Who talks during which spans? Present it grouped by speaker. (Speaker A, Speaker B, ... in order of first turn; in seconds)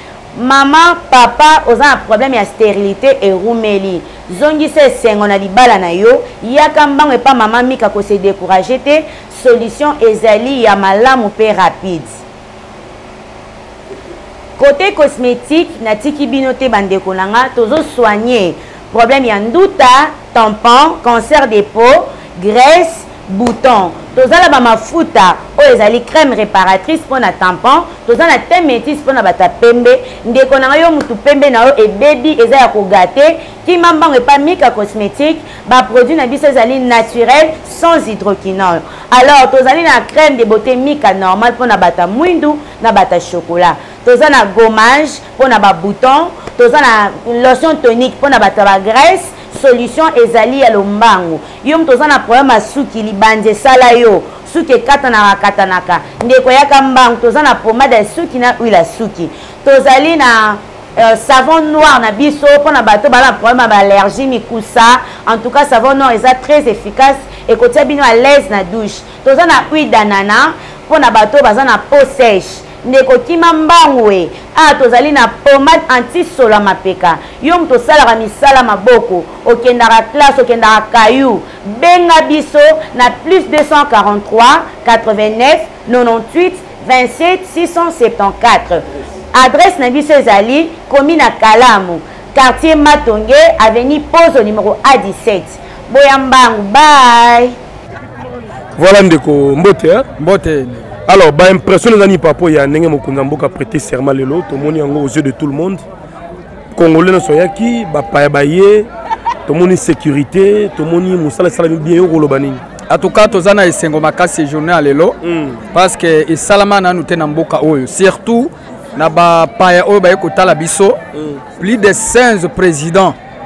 Speaker A: 0.3-12.2, 14.6-97.5
Speaker B: 98.8-100.0, 101.1-105.8, 106.7-108.9, 109.5-112.6, 115.2-115.6, 121.1-121.4
Speaker C: 100.2-100.8, 112.9-115.2, 115.7-121.0, 121.6-123.2